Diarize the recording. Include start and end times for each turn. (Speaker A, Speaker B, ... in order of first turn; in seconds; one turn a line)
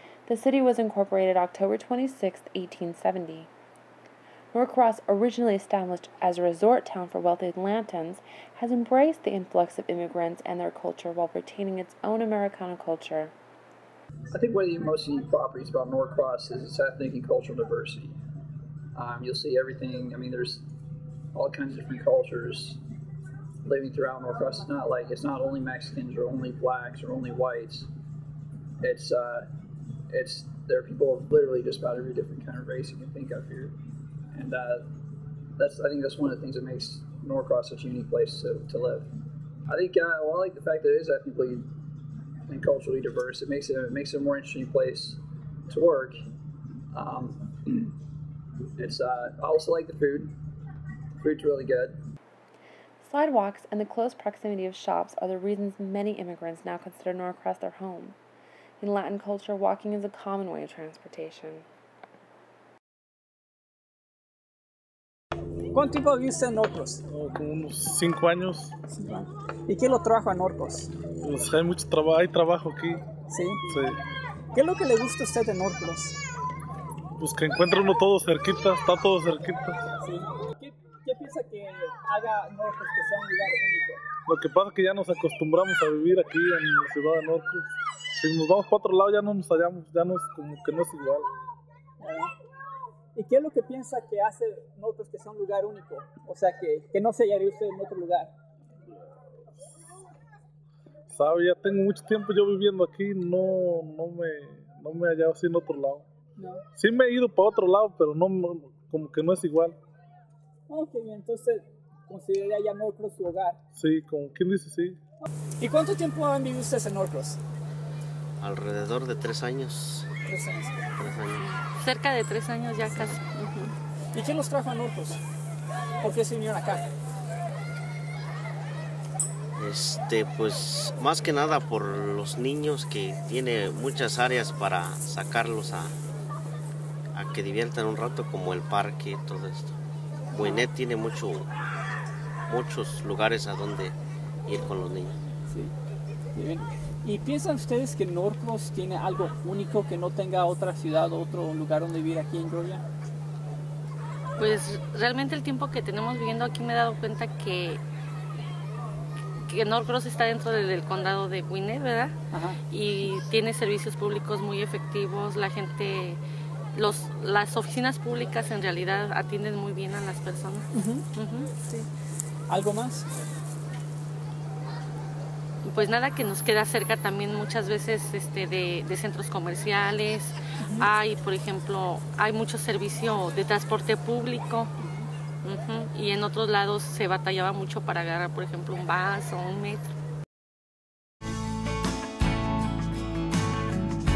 Speaker A: 0.3-3.5
Speaker A: 4.5-13.3
Speaker B: 14.3-18.1
Speaker B: 18.9-20.6
Speaker B: 21.3-22.8
Speaker B: 23.6-27.9
Speaker B: 28.8-29.5
Speaker B: 30.1-33.8
Speaker B: 34.3-34.8
Speaker B: 35.6-39.1
Speaker B: 39.7-41.7
Speaker B: 42.5-46.2
Speaker B: 46.9-47.9
Speaker B: 48.8-50.3
Speaker B: 51.2-52.0
Speaker A: 53.0-58.1
Speaker A: 58.8-61.6
Speaker C: 65.7-67.0
Speaker D: 67.1-68.7
Speaker C: 68.9-70.9
Speaker D: 71.2-73.0
Speaker C: 73.3-73.6
Speaker D: 73.7-74.0
Speaker C: 74.5-76.1
Speaker D: 77.2-79.9
Speaker C: 80.0-84.0
Speaker D: 84.3-91.3
Speaker C: 92.0-92.3
Speaker C: 93.1-98.3
Speaker D: 101.1-106.0
Speaker C: 106.4-106.6
Speaker D: 106.7-109.8
Speaker C: 110.7-113.6
Speaker D: 113.7-115.0
Speaker C: 115.6-117.4
Speaker E: 118.4-120.1
Speaker C: 120.3-120.8
Speaker E: 121.0-121.4
Speaker F: 121.4-123.7
Speaker E: 122.9-123.2
Speaker C: 124.1-125.2
Speaker C: 126.0-126.9
Speaker E: 129.6-135.9
Speaker E: 137.1-139.8
Speaker E: 140.3-141.5
Speaker C: 140.4-140.7
Speaker E: 142.5-145.2
Speaker C: 146.3-152.8
Speaker F: 154.4-157.8
Speaker F: 159.5-162.1
Speaker C: 162.3-162.6
Speaker F: 162.7-166.2
Speaker F: 166.7-171.5
Speaker C: 170.7-171.0
Speaker C: 172.5-173.1
Speaker F: 175.6-184.7
Speaker F: 185.4-189.9